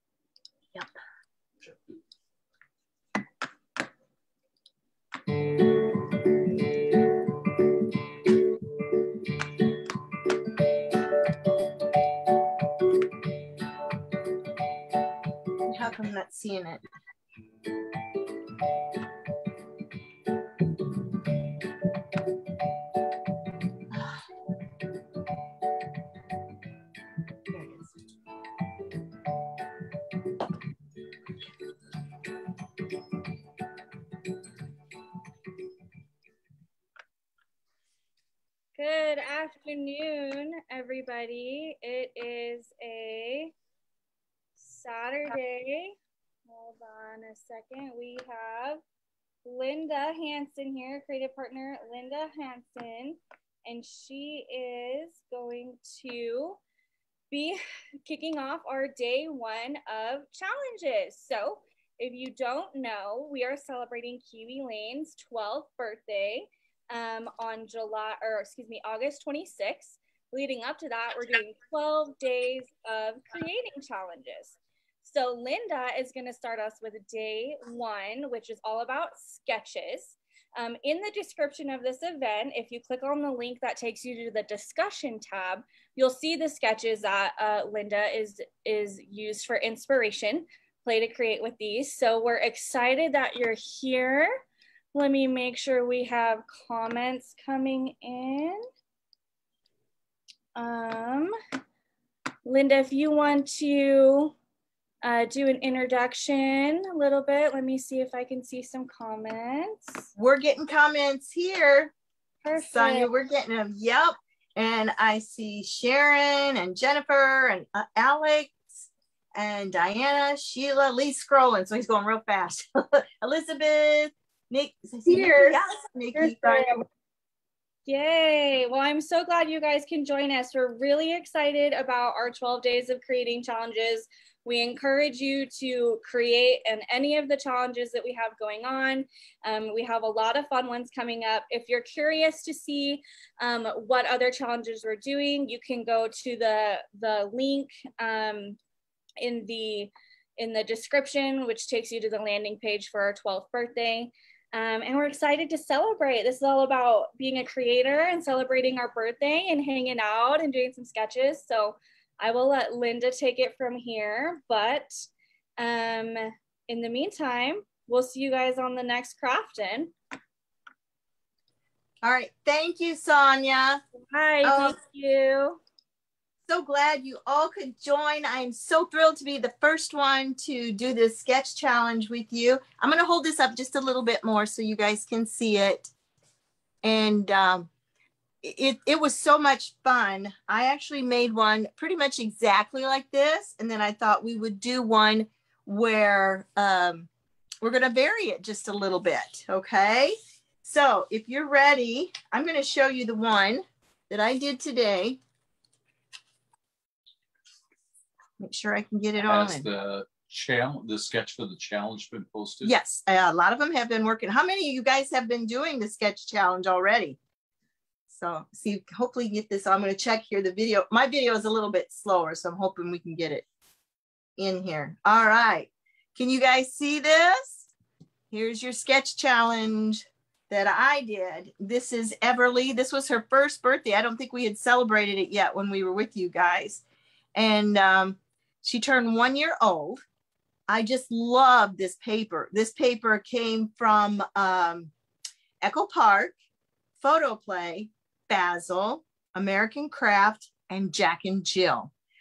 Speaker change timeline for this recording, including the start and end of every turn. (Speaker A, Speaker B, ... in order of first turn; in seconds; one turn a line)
Speaker A: 1.6-1.9
Speaker B: 15.7-16.8
Speaker B: 27.5-27.9
Speaker C: 38.8-43.5
Speaker C: 44.6-46.0
Speaker C: 46.5-48.8
Speaker C: 49.5-56.6
Speaker C: 57.3-94.4
Speaker C: 94.9-98.7
Speaker C: 100.5-101.3
Speaker C: 102.5-104.4
Speaker C: 105.0-110.0
Speaker B: 110.2-111.9
Speaker C: 112.4-113.1
Speaker B: 112.5-126.8
Speaker C: 125.1-126.8
Speaker C: 127.9-148.6
Speaker C: 149.2-165.1
Speaker C: 165.6-169.9
Speaker B: 172.0-173.8
Speaker C: 174.1-175.6
Speaker B: 174.4-174.8
Speaker B: 176.5-185.9
Speaker B: 186.8-187.7
Speaker B: 188.4-197.1
Speaker B: 197.6-205.2
Speaker B: 208.4-209.7
Speaker A: 209.2-212.7
Speaker B: 212.6-217.2
Speaker B: 218.1-223.4
Speaker B: 224.4-227.7
Speaker B: 228.3-236.8
Speaker B: 237.3-240.0
Speaker B: 240.7-244.9
Speaker B: 245.6-246.3
Speaker B: 247.0-251.9